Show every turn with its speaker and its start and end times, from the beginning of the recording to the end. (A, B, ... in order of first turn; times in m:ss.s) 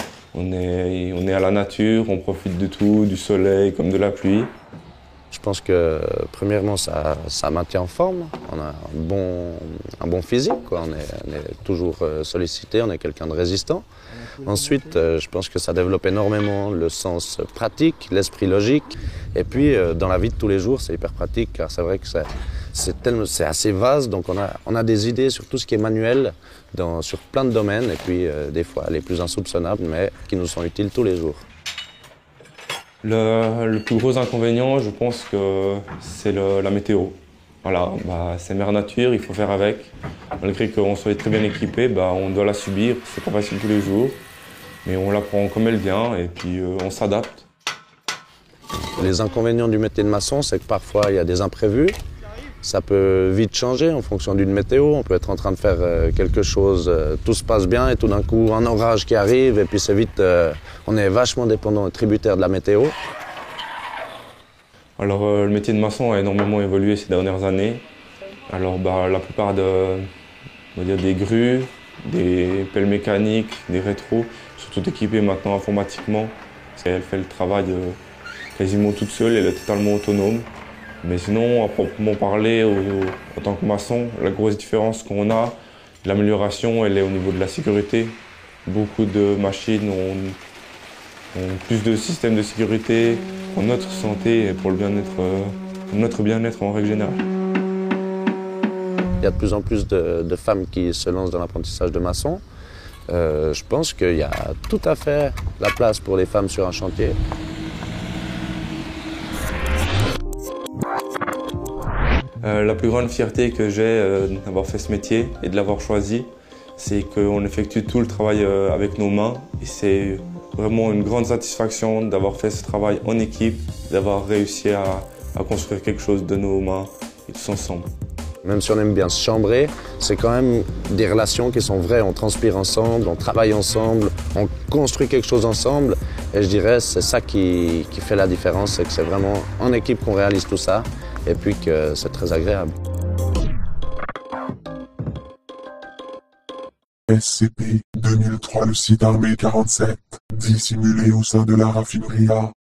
0:00.3-0:04.5 A
0:05.3-0:13.8 B
0:14.4-0:31.4 B
0:33.0-0:44.2 A
0:44.8-0:47.4 A
0:49.0-0:52.0 B
0:52.6-1:03.0 B
1:05.0-1:07.8 A
1:08.5-1:10.1 A
1:10.7-1:18.0 A
1:18.6-1:20.5 A
1:21.0-1:30.4 A
1:31.3-1:37.2 A
1:39.2-1:42.4 B
1:43.1-1:47.2 B
1:52.4-2:07.9 A
2:08.4-2:22.7 B
2:27.1-2:32.5 C